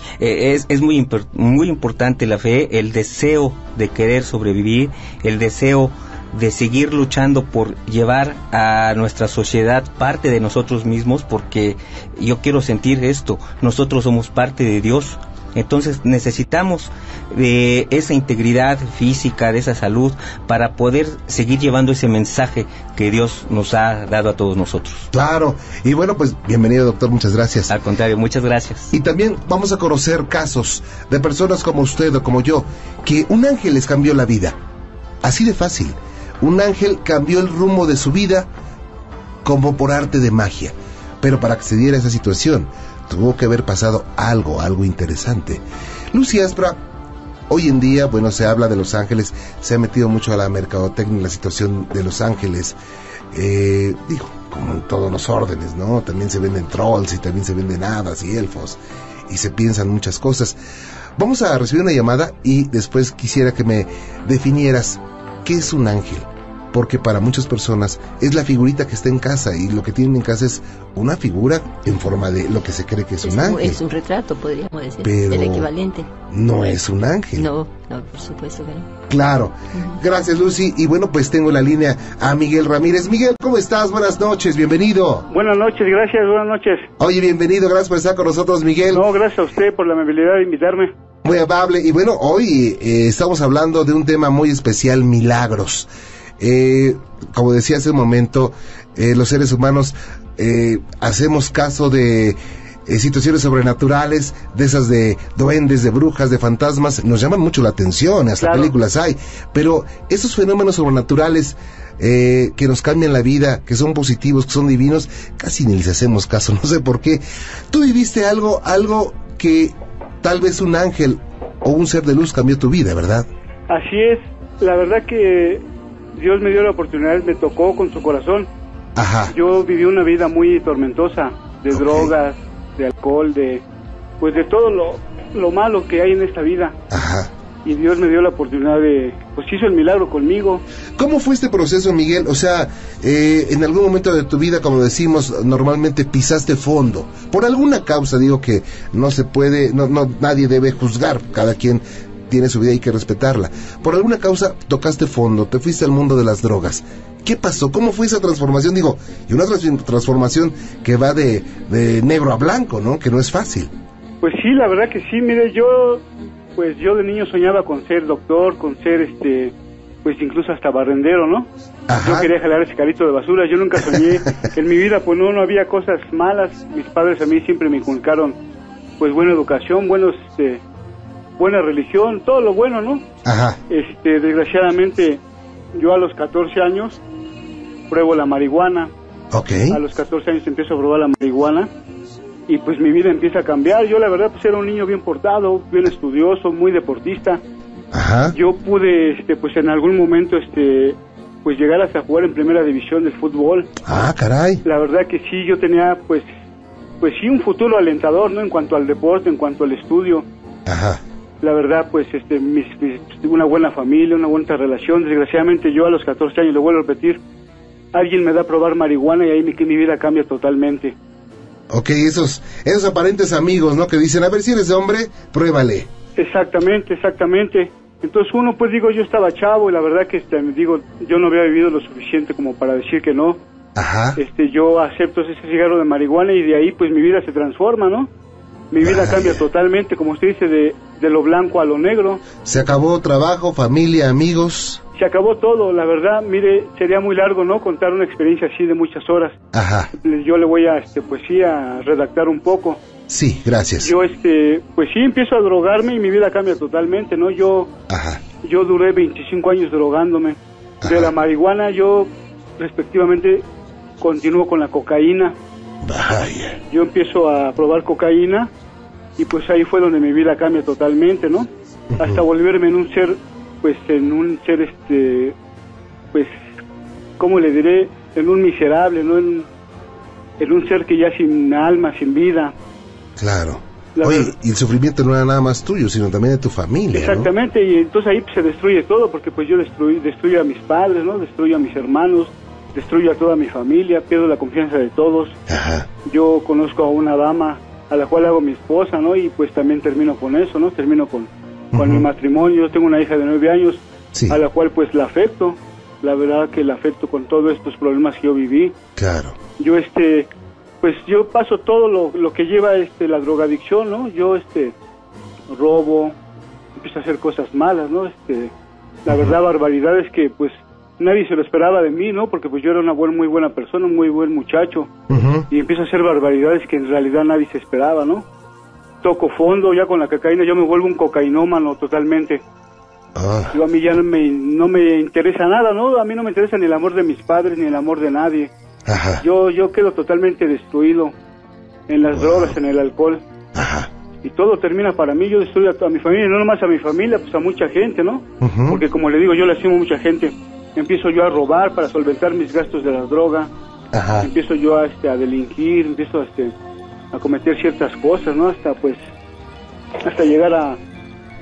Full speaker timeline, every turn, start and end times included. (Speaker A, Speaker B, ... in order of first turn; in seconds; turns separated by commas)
Speaker A: 0.2-25.1, Speaker B: 25.1-27.7, Speaker A: 27.7-28.9, Speaker B: 28.9-34.6, Speaker B: 35.2-38.5, Speaker B: 39.4-46.8, Speaker B: 47.5-52.8, Speaker B: 53.3-60.6, Speaker B: 61.2-73.8, Speaker C: 73.2-76.1, Speaker B: 75.0-75.7, Speaker B: 76.3-77.5, Speaker C: 77.3-78.9, Speaker B: 79.1-85.3, Speaker D: 85.3-86.9, Speaker B: 87.0-89.0, Speaker D: 88.9-90.9, Speaker B: 91.2-123.3, Speaker D: 108.4-108.7, Speaker D: 123.7-125.6, Speaker D: 126.1-128.5, Speaker B: 128.9-129.3, Speaker D: 129.3-133.6, Speaker B: 131.7-132.1, Speaker D: 134.2-136.8, Speaker B: 136.9-137.3, Speaker D: 137.6-140.6, Speaker B: 141.0-163.7, Speaker D: 164.2-166.0, Speaker D: 166.5-178.4, Speaker B: 171.9-172.3, Speaker B: 173.9-174.2, Speaker D: 179.0-180.6, Speaker D: 181.4-183.0, Speaker B: 183.2-183.6, Speaker D: 183.7-185.2, Speaker D: 185.7-187.0, Speaker D: 187.9-188.9, Speaker B: 189.3-189.8, Speaker D: 189.7-191.7, Speaker D: 192.5-197.4, Speaker B: 197.9-198.4, Speaker D: 198.3-203.7, Speaker B: 203.8-204.6, Speaker D: 204.6-206.3, Speaker D: 207.0-210.3, Speaker B: 210.7-211.0, Speaker D: 211.4-217.2, Speaker D: 217.9-220.9, Speaker B: 221.7-225.9, Speaker D: 226.2-233.4, Speaker B: 233.7-234.2, Speaker D: 234.2-238.1, Speaker D: 238.7-242.2, Speaker B: 238.8-239.4, Speaker B: 242.4-244.8, Speaker D: 244.9-249.3, Speaker B: 249.5-249.9, Speaker D: 250.0-252.8, Speaker B: 253.1-253.9, Speaker D: 253.8-257.7, Speaker B: 257.9-258.2, Speaker D: 258.4-263.4, Speaker B: 260.8-261.1, Speaker D: 264.0-265.4, Speaker B: 265.8-266.6, Speaker D: 266.7-268.5, Speaker D: 269.2-275.3, Speaker B: 271.9-272.2, Speaker D: 277.2-279.5, Speaker D: 280.4-282.5, Speaker B: 283.2-287.3, Speaker D: 284.0-284.3, Speaker D: 286.9-295.4, Speaker B: 295.5-295.9, Speaker D: 296.1-308.8, Speaker B: 301.7-302.1, Speaker B: 304.1-304.4, Speaker B: 308.9-309.4, Speaker D: 309.6-310.3, Speaker D: 310.8-314.7, Speaker D: 315.5-316.1, Speaker D: 316.7-318.5, Speaker D: 319.0-324.9, Speaker B: 325.1-325.5, Speaker D: 325.5-328.2, Speaker D: 329.0-332.4, Speaker B: 333.1-333.5, Speaker D: 333.5-338.5, Speaker B: 338.9-339.2, Speaker D: 339.2-341.1, Speaker D: 341.9-343.2, Speaker B: 342.1-342.6, Speaker B: 343.5-343.9, Speaker D: 344.2-353.5, Speaker B: 348.4-348.8, Speaker B: 353.9-354.3, Speaker D: 354.2-356.5, Speaker D: 357.1-359.0, Speaker D: 360.0-360.8